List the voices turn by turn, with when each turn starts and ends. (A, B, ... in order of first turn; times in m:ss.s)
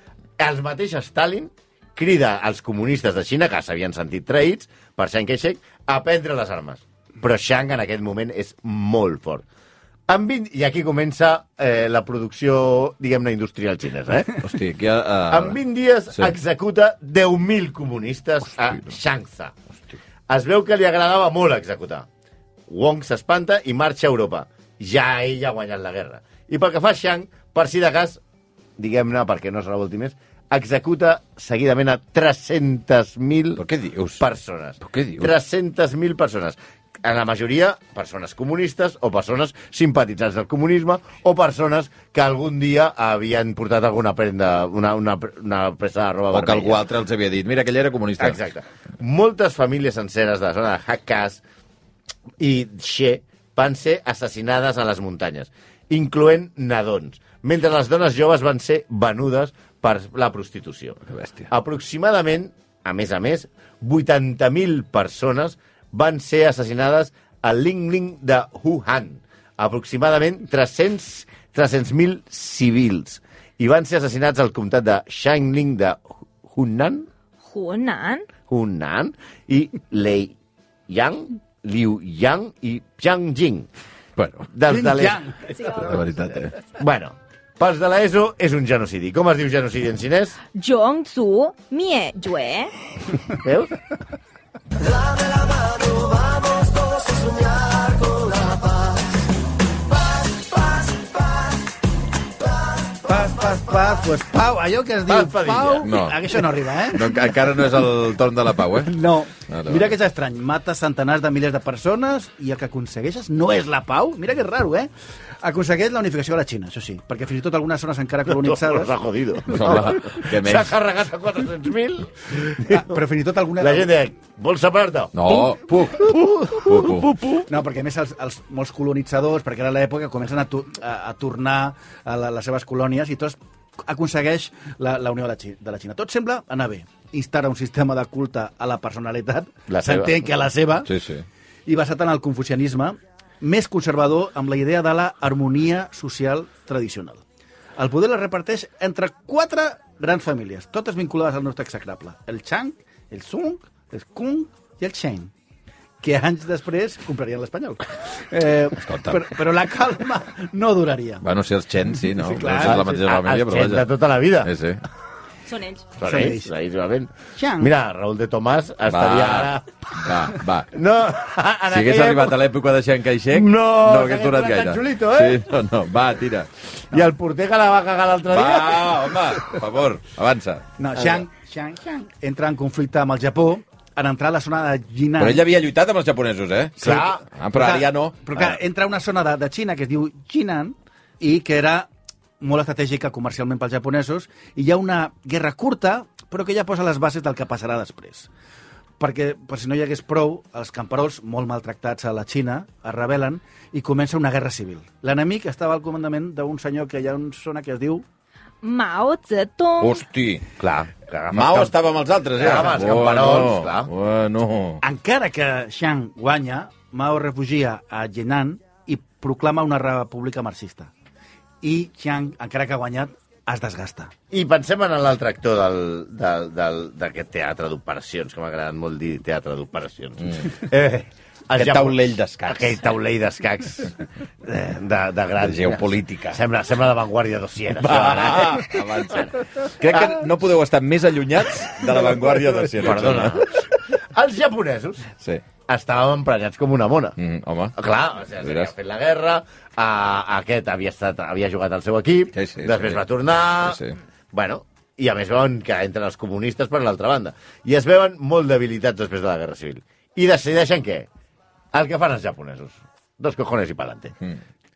0:00.4-0:09.4 A
0:10.1-0:14.4 A
0:14.3-0:15.6 B
0:15.3-0:19.6 A
0:20.3-0:22.1 A
0:22.7-0:28.2 A
0:28.8-0:33.6 A
0:33.6-0:34.2 B
0:34.2-0:46.9 A
0:34.8-0:35.3 B
0:46.3-0:48.4 B
0:48.2-0:51.4 A
0:52.4-1:17.1 A
1:01.1-1:01.5 B
1:17.4-1:18.3 C
1:18.5-1:20.4 A
1:20.9-1:23.7 A
1:24.2-1:24.5 B
1:24.5-1:25.2 A
1:24.6-1:26.0 D
1:25.8-1:26.5 B
1:26.7-1:30.4 A
1:30.5-1:32.7 C
1:33.4-1:33.7 A
1:43.0-1:47.2 D
1:45.1-1:45.9 A
1:45.8-1:49.0 B
1:48.8-1:54.9 D
1:49.5-1:49.9 B
1:55.4-1:59.0 D
1:58.3-2:03.0 A
1:59.5-2:00.7 B
2:02.5-2:03.9 D
2:03.6-2:07.4 A
2:05.1-2:07.2 B
2:07.5-2:20.9 D
2:19.7-2:20.3 A
2:20.8-2:21.2 B
2:21.6-2:27.2 D
2:27.8-2:35.3 D
2:36.0-2:41.2 D
2:38.8-2:39.3 B
2:41.2-2:43.8 B
2:42.1-2:43.0 D
2:42.6-2:44.5 A
2:44.4-2:44.8 B
2:45.5-2:45.9 C
2:46.0-2:52.4 A
2:46.0-2:46.5 D
2:47.3-2:47.7 D
2:48.9-2:50.7 B
2:51.7-2:56.5 B
2:53.3-2:55.4 A
2:56.9-2:59.3 A
2:58.3-3:00.6 B
3:00.8-3:05.4 D
3:05.2-3:08.5 B
3:06.8-3:11.9 D
3:06.8-3:07.2 A
3:12.4-3:18.3 D
3:19.0-3:28.0 D
3:28.6-3:30.0 C
3:29.8-3:30.4 B
3:30.6-3:31.7 A
3:31.3-3:34.8 B
3:32.3-3:33.9 A
3:34.8-3:40.9 D
3:41.6-3:44.1 D
3:44.3-3:59.3 A
3:50.2-3:50.5 B
3:51.6-3:52.8 B
3:55.4-3:56.4 B
3:57.8-4:03.4 B
3:59.9-4:00.2 A
4:02.7-4:05.1 A
4:05.7-4:07.2 A
4:07.2-4:07.7 B
4:07.8-4:13.8 A
4:08.4-4:08.7 B
4:12.3-4:13.0 B
4:13.5-4:14.0 B
4:14.3-4:21.1 A
4:21.7-4:24.1 A